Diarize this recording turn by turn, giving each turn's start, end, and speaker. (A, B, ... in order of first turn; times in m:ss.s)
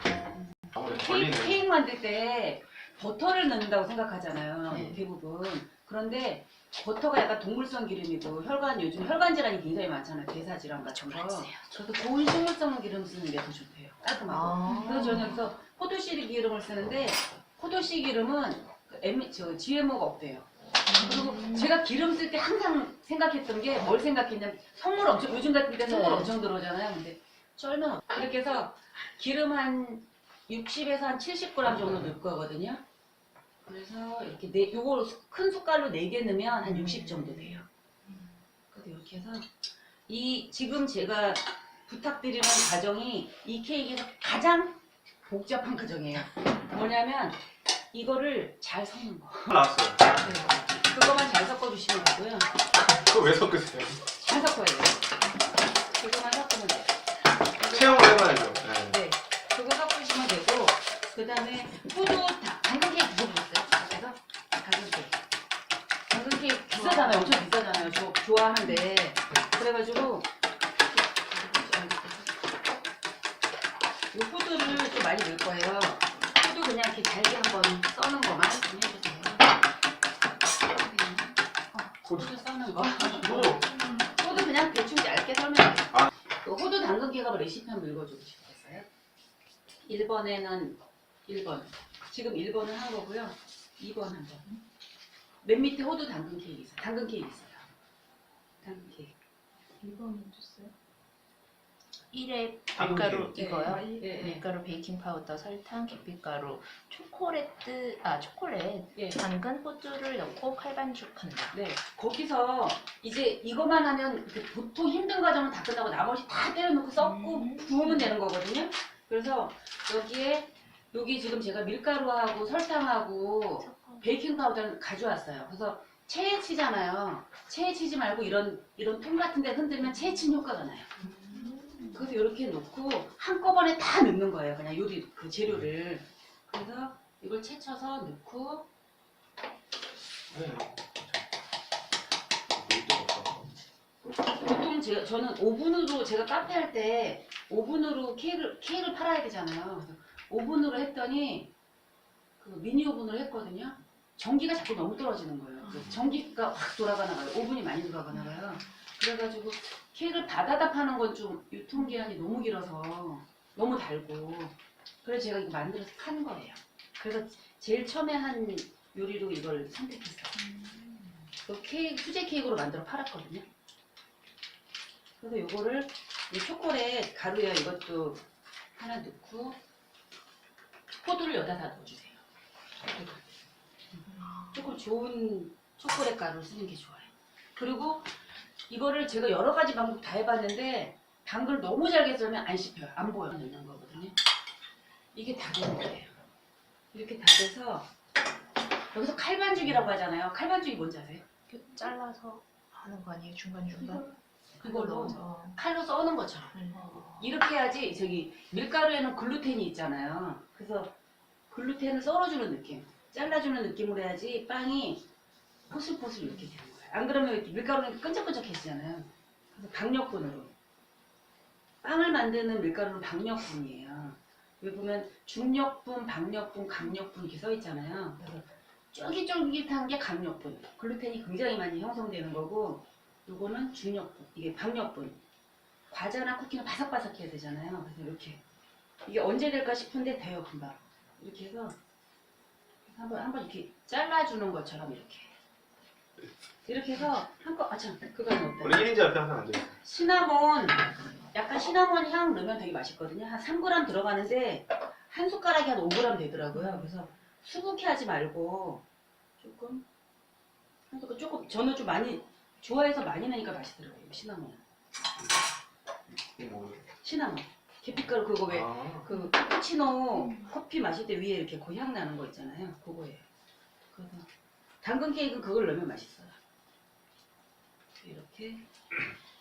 0:00.6-0:32.8 A
0:00.8-0:01.6 B
0:04.7-0:05.0 C
0:10.9-0:11.7 C
0:14.3-0:15.4 C
0:14.6-0:15.0 D
0:20.9-0:21.7 C
0:25.8-0:26.3 C
0:33.6-0:37.7 A
0:37.0-0:37.3 C
0:38.7-0:39.5 A
0:40.1-0:49.5 A
0:49.5-0:50.2 B
0:50.1-0:52.5 A
0:52.8-0:54.0 B
0:54.2-0:55.1 A
0:55.9-0:57.0 A
0:57.5-1:05.2 A
0:57.7-0:59.0 B
1:06.1-1:10.3 A
1:06.7-1:07.7 C
1:10.9-1:12.3 A
1:14.1-1:19.6 A
1:20.8-1:28.9 A
1:23.2-1:23.7 B
1:29.9-1:34.4 A
1:35.4-1:37.6 A
1:38.6-1:39.2 A
1:39.8-1:40.7 D
1:42.1-1:51.6 C
1:42.8-1:43.3 B
1:43.3-1:44.4 A
1:49.0-1:49.2 A
1:51.5-2:10.9 A
1:57.0-1:58.1 C
2:03.6-2:04.1 C
2:11.0-2:12.0 C
2:11.6-2:11.9 D
2:11.9-2:18.7 A
2:20.3-2:21.2 B
2:22.5-2:23.5 B
2:24.3-2:31.5 A
2:32.4-2:50.4 A
2:50.4-2:51.2 C
2:51.4-2:53.4 A
2:55.2-2:58.2 A
2:58.8-2:59.6 A
3:01.0-3:02.2 A
3:02.8-3:03.2 A
3:03.9-3:08.1 A
3:04.1-3:04.5 C
3:08.7-3:14.2 A
3:15.1-3:16.1 A
3:16.9-3:17.9 A
3:18.9-3:21.2 A
3:21.5-3:24.0 C
3:23.7-3:26.6 A
3:24.6-3:25.6 C
3:26.5-3:27.3 C
3:27.1-3:30.9 A
3:31.5-3:35.1 A
3:35.7-3:40.5 A
3:41.8-3:55.2 A
3:55.9-3:58.4 A
3:59.0-4:01.8 A
4:02.8-4:05.3 A
4:06.6-4:08.9 A
4:08.6-4:09.7 B
4:09.8-4:18.8 A
4:16.6-4:16.9 C
4:19.4-4:19.8 A
4:20.9-4:24.6 A
4:26.4-4:26.8 B
4:27.0-4:33.2 A
4:28.5-4:29.0 B
4:30.2-4:30.5 D
4:33.9-4:34.3 A
4:34.8-4:36.4 A
4:38.0-4:38.7 A